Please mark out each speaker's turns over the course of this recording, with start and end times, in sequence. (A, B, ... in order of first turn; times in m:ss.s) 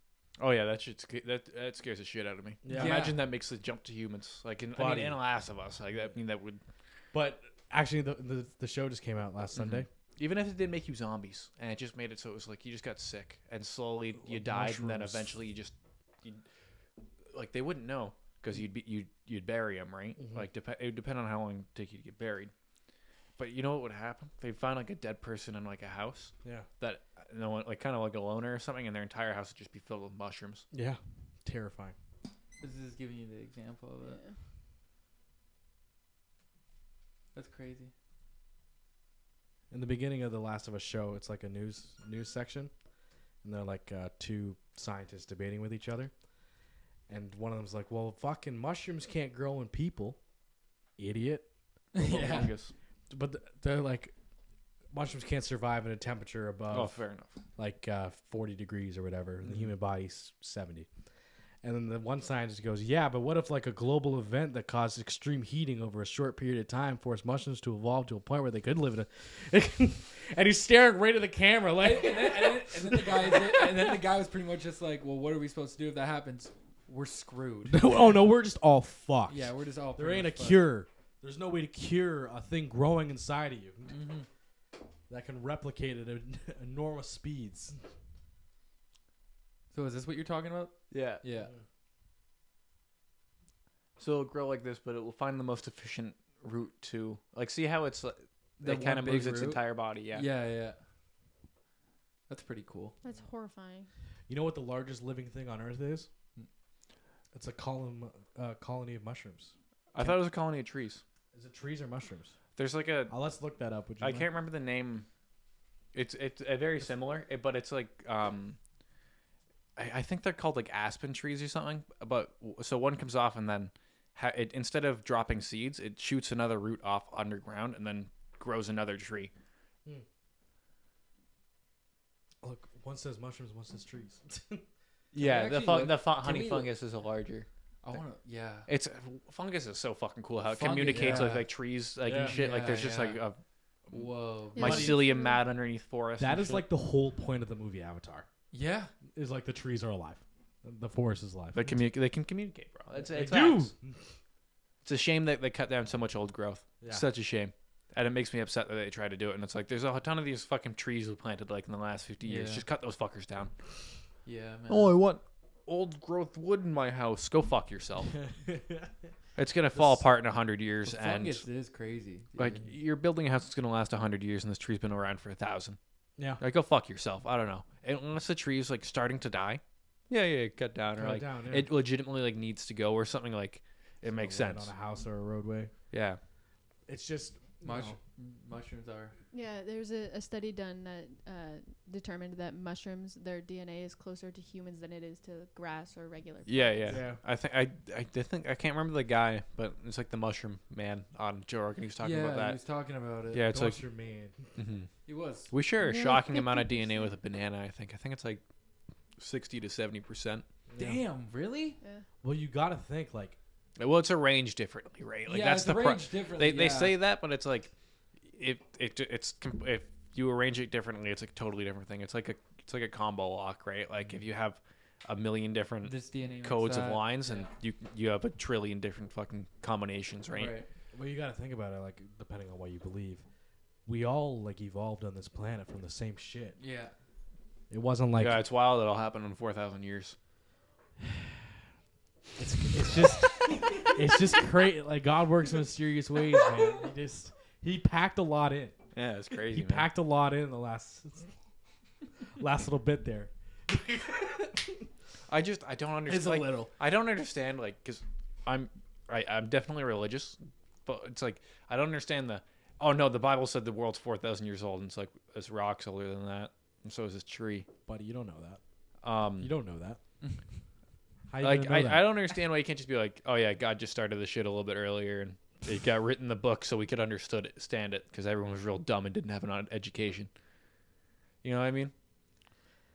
0:00.4-0:06.6 A
0:02.6-0:03.2 B
0:02.7-0:03.2 C
0:04.7-0:05.2 B
0:07.1-0:09.9 B
0:09.6-0:16.4 A
0:14.2-0:15.3 B
0:17.3-0:22.5 A
0:20.2-0:20.5 B
0:23.4-0:30.6 A
0:30.7-0:32.0 B
0:32.6-0:34.2 C
0:34.0-0:34.4 D
0:37.3-0:37.9 C
0:39.7-0:42.7 B
0:43.4-0:46.1 B
0:47.1-0:50.2 B
0:51.0-0:51.5 B
0:52.0-0:52.5 C
0:52.0-0:52.7 A
0:53.1-0:54.1 B
0:54.9-0:57.0 B
0:56.7-0:57.4 A
0:57.6-1:00.9 B
1:01.6-1:13.9 B
1:11.8-1:18.0 C
1:17.7-1:24.0 B
1:19.3-1:20.7 C
1:23.9-1:24.3 C
1:25.1-1:27.8 B
1:29.7-1:31.5 C
1:30.9-1:31.2 A
1:34.0-1:40.3 A
1:38.6-1:40.8 C
1:42.3-1:43.0 C
1:43.0-1:43.9 D
1:44.3-1:46.1 B
1:47.3-1:49.5 B
1:49.9-1:51.0 A
1:51.3-1:52.4 B
1:52.6-1:53.2 A
1:53.1-1:54.3 B
1:54.0-1:55.1 A
1:55.9-1:58.6 A
1:59.8-2:09.3 A
2:12.4-2:14.6 B
2:15.1-2:17.5 A
2:15.2-2:16.7 C
2:17.8-2:18.7 C
2:18.7-2:26.7 A
2:20.5-2:21.5 C
2:20.9-2:21.4 B
2:22.0-2:22.4 B
2:22.1-2:23.2 C
2:23.9-2:25.0 C
2:24.6-2:25.4 D
2:24.6-2:25.0 B
2:26.2-2:28.3 B
2:28.5-2:28.9 C
2:29.1-2:31.8 B
2:31.5-2:33.7 A
2:33.0-2:34.0 B
2:34.8-2:43.6 A
2:36.8-2:37.1 B
2:42.2-2:42.7 C
2:44.2-2:44.9 C
2:44.7-2:48.2 A
2:48.1-2:48.9 B
2:49.4-2:51.5 A
2:49.7-2:50.0 B
2:50.8-2:52.7 C
2:52.4-2:55.8 A
2:56.4-3:04.7 A
3:01.0-3:01.7 B
3:04.0-3:05.7 B
3:05.9-3:06.2 A
3:06.9-3:08.0 B
3:07.6-3:09.2 C
3:09.3-3:17.0 D
3:16.4-3:22.6 A
3:16.9-3:17.2 B
3:22.0-3:23.5 C
3:23.3-3:23.8 A
3:23.5-3:24.5 B
3:24.6-3:24.9 A
3:25.1-3:25.5 C
3:25.5-3:28.4 A
3:25.8-3:27.1 D
3:29.2-3:30.4 A
3:30.7-3:31.0 B
3:30.8-3:31.8 C
3:32.2-3:33.4 B
3:33.8-3:37.7 A
3:35.3-3:37.0 C
3:38.3-3:50.6 A
3:45.8-3:47.5 C
3:50.3-3:50.7 C
3:50.9-3:53.2 B
3:53.9-3:56.6 B
3:56.6-3:56.9 C
3:57.7-3:58.4 B
3:58.2-4:00.2 A
4:02.4-4:08.8 B
4:02.6-4:04.0 C
4:08.9-4:09.9 A
4:09.5-4:11.3 B
4:12.4-4:14.9 B
4:15.3-4:27.7 A
4:16.1-4:16.7 C
4:27.9-4:28.6 B
4:29.0-4:29.5 A
4:29.4-4:30.0 B
4:31.3-4:32.1 B
4:31.4-4:40.3 A
4:41.4-4:41.9 A